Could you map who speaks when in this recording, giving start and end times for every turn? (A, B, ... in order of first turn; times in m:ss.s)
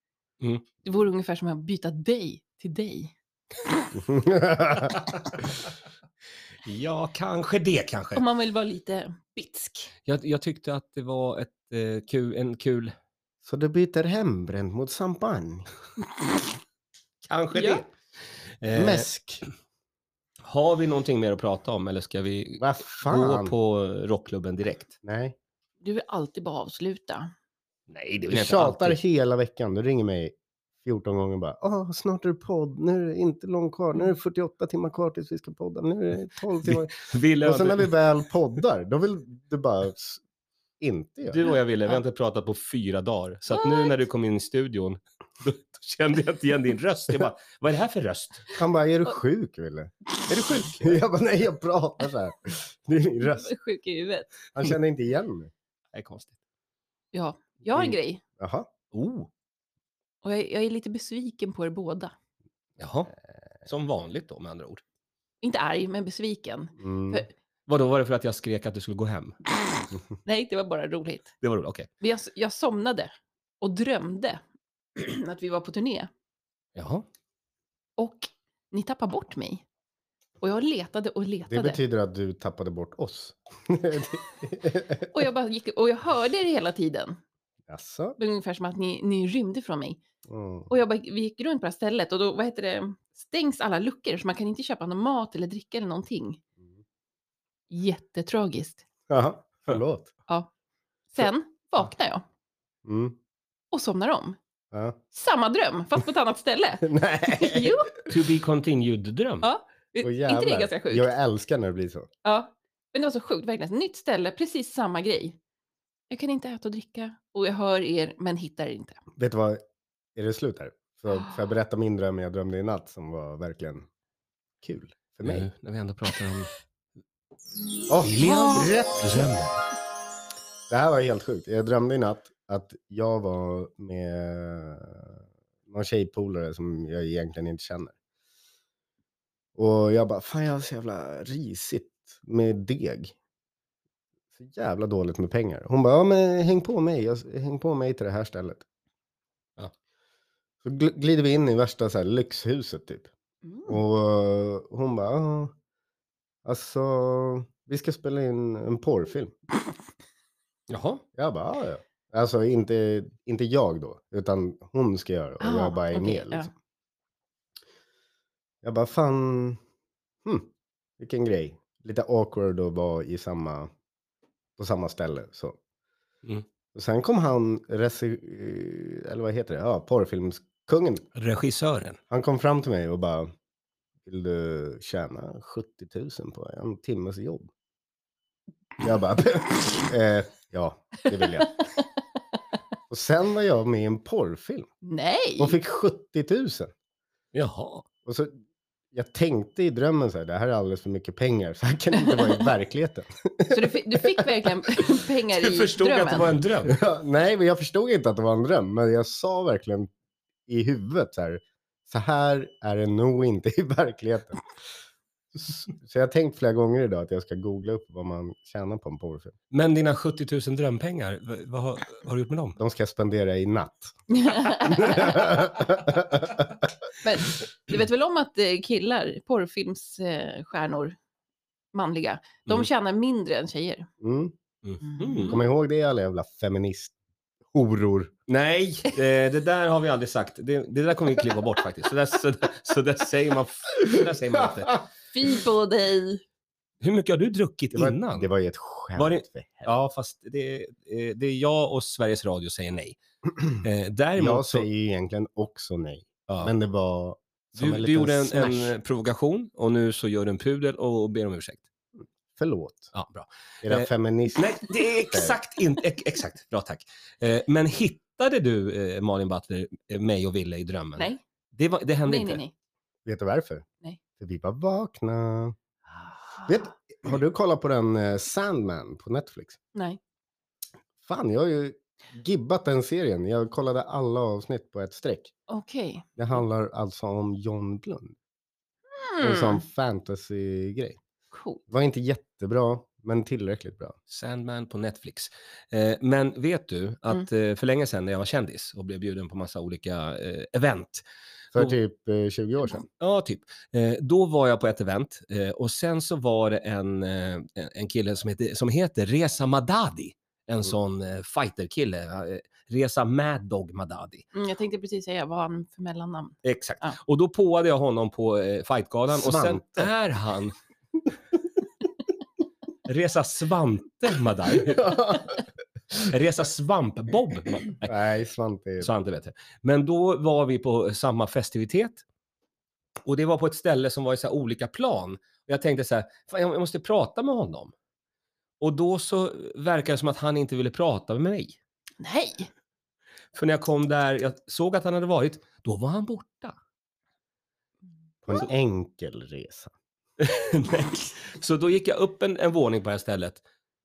0:00.4-0:00.7 A
0:00.8-0:03.1 B
0:03.9-0:05.0 C
0:06.6-0:08.2 A
0:08.2-0:09.9 B
0:10.1-0:13.0 A
0:13.4-0:15.7 C
0:17.2-0:17.9 A
0:17.6-0:17.8 B
0:18.6-0:19.1 A
0:18.7-0:19.5 C
0:20.4-0:25.0 A
0:22.6-0:23.5 C
0:25.0-0:25.4 C
0:25.8-0:27.3 B
0:27.9-0:29.0 A
0:28.3-0:40.2 C
0:36.6-0:37.9 A
0:40.8-0:41.4 C
0:41.3-0:48.6 A
0:43.5-0:43.9 B
0:48.6-0:49.9 C
0:50.3-0:51.0 A
0:50.8-0:53.5 C
0:53.2-0:54.3 B
0:54.5-0:55.5 C
0:55.9-0:56.4 A
0:57.1-0:58.2 B
0:57.7-0:58.7 C
0:58.9-0:59.3 A
1:00.2-1:02.1 B
1:02.8-1:03.1 A
1:03.6-1:04.8 A
1:05.4-1:07.3 B
1:06.8-1:07.3 C
1:07.7-1:09.4 A
1:10.2-1:11.3 B
1:11.4-1:11.9 A
1:12.0-1:14.4 B
1:15.0-1:16.1 B
1:16.8-1:17.1 A
1:18.0-1:19.6 B
1:20.4-1:21.8 B
1:21.5-1:25.1 C
1:25.1-1:27.2 B
1:27.7-1:28.2 C
1:28.2-1:30.0 B
1:30.3-1:30.7 C
1:30.7-1:36.4 B
1:37.7-1:38.8 B
1:39.1-1:40.1 C
1:41.1-1:42.2 B
1:42.8-1:43.2 C
1:43.7-1:44.4 B
1:44.7-1:45.0 C
1:45.1-1:47.9 B
1:46.8-1:48.1 C
1:48.1-1:49.5 A
1:49.4-1:51.1 B
1:50.0-1:52.1 C
1:52.2-1:55.4 B
1:56.1-1:59.0 B
1:59.2-1:59.6 C
2:00.2-2:03.9 C
2:04.6-2:05.5 C
2:05.2-2:06.5 A
2:07.9-2:09.3 C
2:08.0-2:09.6 A
2:08.2-2:08.8 B
2:10.7-2:18.0 C
2:19.6-2:23.1 C
2:24.4-2:28.6 C
2:30.6-2:33.1 C
2:33.5-2:33.8 B
2:33.7-2:35.5 C
2:36.4-2:39.4 C
2:40.7-2:41.0 A
2:41.2-2:46.5 C
2:45.4-2:46.5 B
2:48.6-2:49.6 C
2:50.2-2:53.7 C
2:54.6-2:55.6 C
2:56.7-3:01.0 C
3:01.2-3:02.0 A
3:02.1-3:03.3 C
3:04.1-3:07.5 C
3:08.8-3:11.6 C
3:12.9-3:14.7 C
3:14.8-3:15.6 B
3:15.4-3:16.7 C
3:17.3-3:17.8 A
3:18.1-3:18.3 C
3:18.9-3:24.4 C
3:22.0-3:22.4 B
3:23.5-3:26.4 B
3:25.3-3:26.8 A
3:26.6-3:29.9 C
3:30.5-3:34.4 C
3:35.4-3:39.3 C
3:39.5-3:42.6 A
3:42.6-3:43.9 C
3:44.1-3:45.3 B
3:44.6-3:46.5 C
3:47.0-3:51.0 B
3:51.7-3:53.9 B
3:54.0-3:54.4 C
3:54.6-3:55.4 A
3:54.8-3:55.4 B
3:55.3-3:56.9 C
3:57.5-3:58.1 C
3:58.3-4:04.8 A
4:05.1-4:06.2 B
4:06.8-4:08.3 A
4:07.8-4:09.7 C
4:09.0-4:13.0 A
4:13.6-4:14.7 A
4:14.2-4:18.7 C
4:17.6-4:21.6 A
4:22.4-4:22.9 C
4:22.9-4:32.4 A
4:23.6-4:25.4 C
4:32.1-4:32.5 B
4:33.0-4:33.6 C
4:34.2-4:35.6 C
4:36.4-4:39.6 C
4:41.0-4:45.3 C
4:45.5-4:46.1 B
4:46.2-4:48.2 C
4:49.0-4:49.6 B
4:49.2-4:51.0 C
4:51.3-4:51.6 B
4:51.7-4:54.0 C
4:54.1-5:01.0 A
5:01.5-5:02.9 C
5:03.0-5:14.3 A
5:14.3-5:17.0 B
5:16.4-5:20.5 A
5:19.1-5:19.9 C
5:22.9-5:25.0 A
5:24.6-5:25.4 C
5:26.0-5:27.9 A
5:27.8-5:28.9 C
5:28.8-5:32.0 A
5:33.0-5:37.7 A
5:38.6-5:41.6 A
5:42.0-5:42.5 B
5:43.3-5:46.6 A
5:48.2-5:49.7 C
5:50.2-5:53.4 A